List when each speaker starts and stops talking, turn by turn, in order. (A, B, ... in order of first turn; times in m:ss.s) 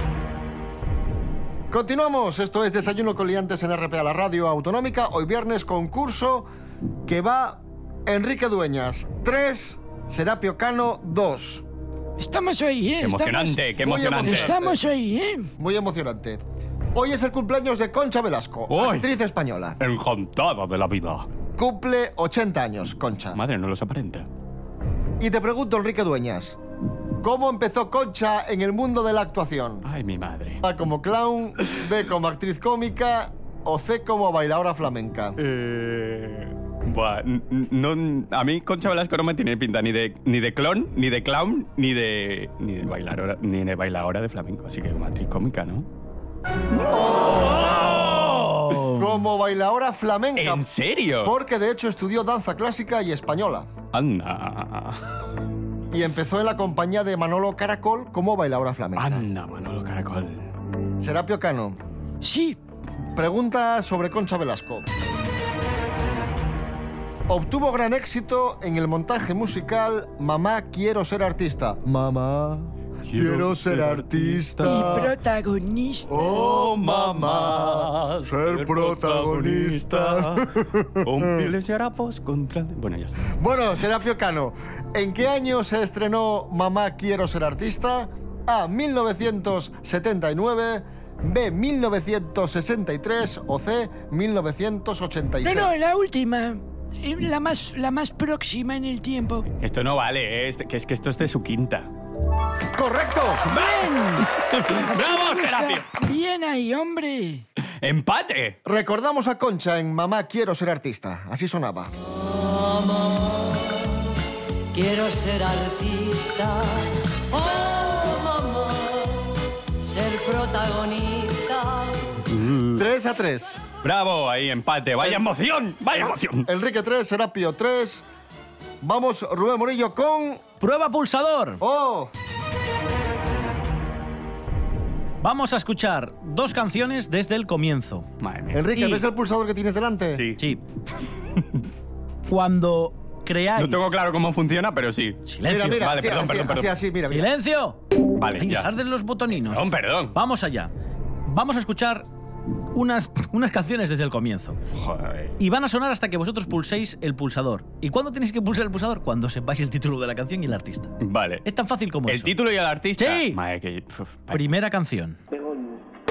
0:01.7-0:06.5 A
0:07.1-0:11.6 A
0:12.2-0:13.6 B
0:13.0-0:14.6 C
0:13.8-0:14.8 A
0:14.2-0:15.5 B
0:15.6-0:16.4 A
0:16.9-0:19.8 A
0:18.7-0:19.1 C
0:19.8-0:21.3 C
0:21.6-0:23.4 A
0:23.4-0:24.3 C
0:25.2-0:26.6 A
0:27.2-0:29.9 A
0:29.8-0:30.6 C
0:30.6-0:35.4 A
0:35.4-0:45.9 C
0:46.9-0:48.3 A
0:47.6-0:48.1 C
0:48.2-0:49.1 D
0:48.9-0:50.6 A
0:50.4-0:51.3 C
0:51.2-0:53.7 A
0:53.9-0:55.0 C
0:55.9-0:59.3 A
0:59.0-1:00.5 C
1:01.0-1:01.8 A
1:02.2-1:02.6 B
1:03.2-1:04.9 A
1:07.3-1:15.1 A
1:13.1-1:15.1 C
1:14.6-1:16.2 B
1:16.1-1:21.5 A
1:16.2-1:23.4 C
1:23.4-1:35.7 A
1:35.4-1:39.5 B
1:39.6-1:41.9 C
1:42.7-1:43.4 A
1:43.5-1:45.9 C
1:43.5-1:47.4 B
1:47.8-1:48.6 C
1:48.6-1:51.9 A
1:52.2-1:53.8 E
1:54.7-2:02.0 E
2:02.3-2:02.8 C
2:02.8-2:03.6 A
2:03.8-2:06.5 C
2:06.4-2:08.1 A
2:08.8-2:10.4 A
2:10.6-2:11.6 D
2:11.6-2:12.1 A
2:15.2-2:18.1 D
2:18.2-2:19.0 C
2:18.5-2:20.2 A
2:20.2-2:20.4 C
2:22.3-2:23.9 D
2:23.6-2:26.7 C
2:25.3-2:25.8 D
2:25.5-2:27.3 A
2:27.1-2:27.8 D
2:28.2-2:28.7 C
2:28.4-2:30.7 D
2:29.3-2:30.2 C
2:31.3-2:32.1 D
2:32.7-2:34.6 D
2:34.8-2:35.4 C
2:35.4-2:40.9 D
2:41.0-2:41.4 C
2:41.4-2:42.4 D
2:42.1-2:44.5 C
2:43.0-2:43.4 D
2:44.3-2:45.2 D